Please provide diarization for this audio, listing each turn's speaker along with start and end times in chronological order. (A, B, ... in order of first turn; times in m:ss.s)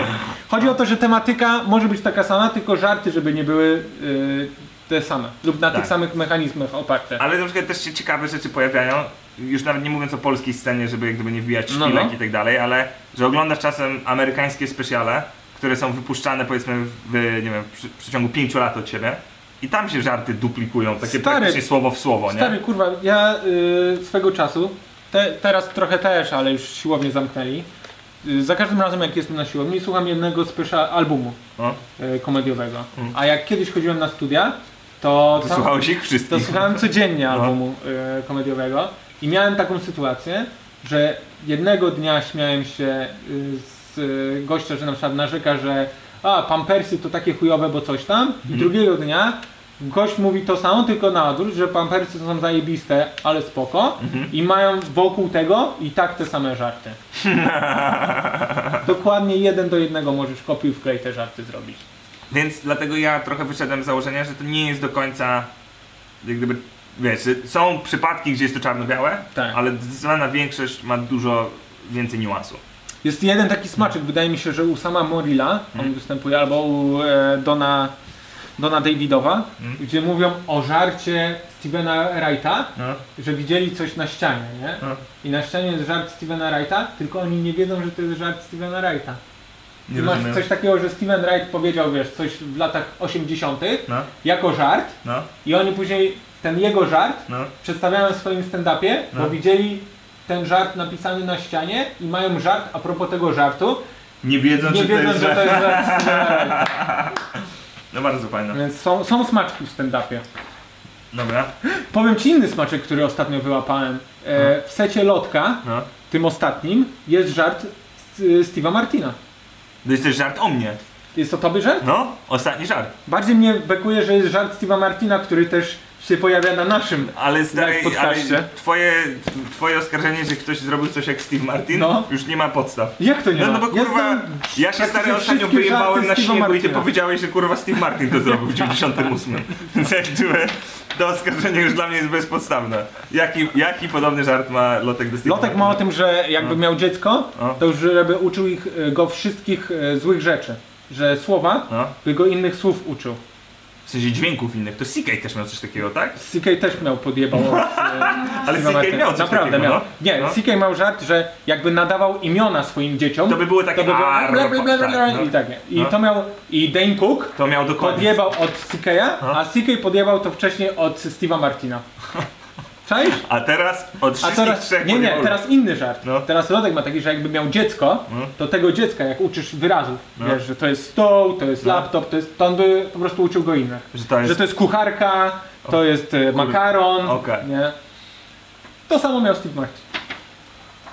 0:00.5-0:07.2 A
0:07.2-0:22.6 B
0:11.7-0:12.1 A
0:21.0-0:21.7 A
0:22.3-0:27.7 A
0:28.2-0:31.4 A
0:32.0-0:57.0 A
0:35.4-0:37.5 B
0:48.4-0:48.7 B
0:54.0-0:54.3 B
0:57.2-0:58.8 B
0:58.8-1:01.8 A
1:02.3-1:05.5 B
1:06.2-1:12.6 B
1:13.0-1:17.9 A
1:18.6-1:29.2 A
1:22.8-1:23.0 B
1:29.9-1:30.4 B
1:29.9-1:43.8 A
1:35.0-1:35.3 B
1:44.2-1:48.6 B
1:44.6-1:46.7 A
1:48.5-1:50.2 A
1:51.1-1:51.5 B
1:51.6-1:59.2 A
1:59.8-2:00.8 B
2:01.1-2:01.9 A
2:01.8-2:02.9 B
2:03.1-2:08.5 A
2:07.1-2:25.8 B
2:11.7-2:12.1 A
2:13.0-2:16.9 A
2:25.2-2:33.2 A
2:33.8-2:36.2 B
2:36.2-2:51.8 A
2:37.3-2:40.4 B
2:43.3-2:45.9 B
2:47.4-2:48.2 B
2:52.8-2:53.2 A
2:53.2-2:55.4 B
2:54.2-3:07.7 A
3:01.6-3:01.9 B
3:03.9-3:04.4 B
3:06.3-3:07.4 B
3:08.9-3:09.8 A